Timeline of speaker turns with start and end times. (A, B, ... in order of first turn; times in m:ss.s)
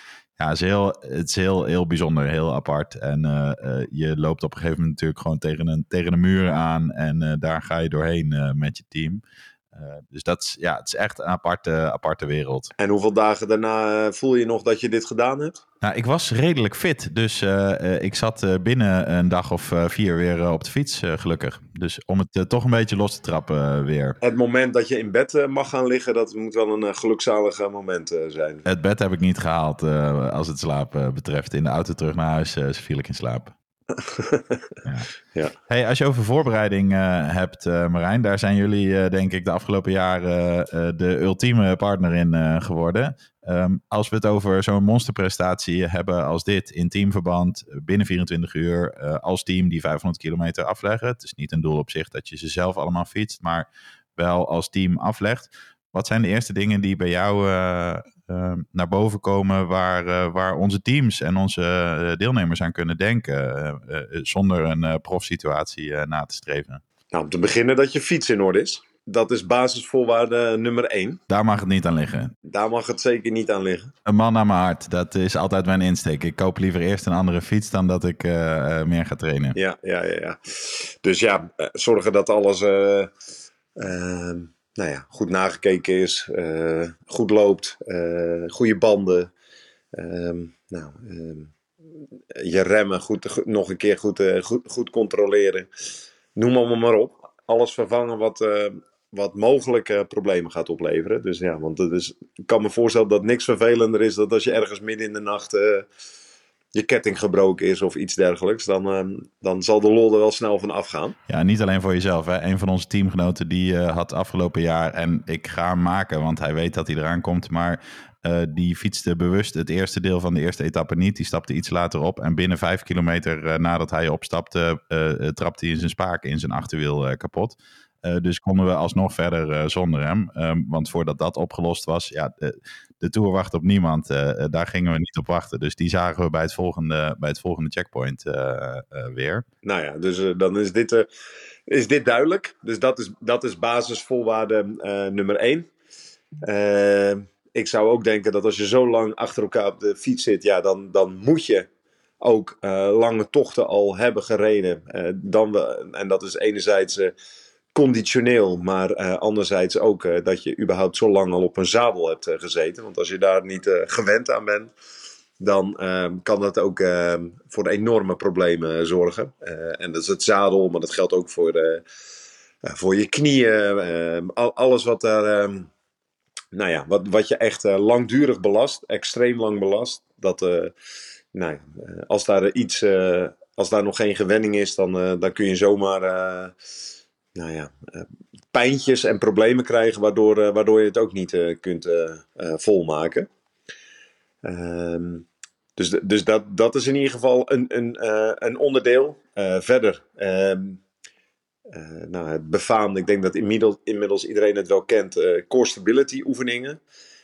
0:00.4-0:09.2 A
0:09.7-0:12.7 A
0:12.8-0:15.6 B
0:15.8-0:24.2 A
0:24.2-0:28.6 B
0:28.6-0:33.5 A
0:33.9-0:34.7 B
0:34.8-0:35.1 A
0:35.7-1:06.8 A
1:07.1-1:11.2 B
1:11.3-1:12.3 A
1:12.4-1:13.9 B
1:14.0-1:19.6 A
1:19.5-1:23.1 B
1:23.8-1:29.3 B
1:29.9-1:31.5 B
1:32.3-1:35.7 B
1:36.3-1:45.9 B
1:46.7-1:51.2 B
1:51.3-2:19.4 A
2:19.6-2:21.1 B
2:21.7-2:25.7 B
2:26.4-2:31.7 B
2:32.2-2:37.1 B
2:37.7-2:44.7 B
2:45.4-2:51.8 B
2:52.6-2:55.7 B
2:56.5-3:00.7 B
3:01.3-3:06.5 B
3:07.3-3:13.3 B
3:14.4-3:20.8 B
3:21.7-3:26.8 B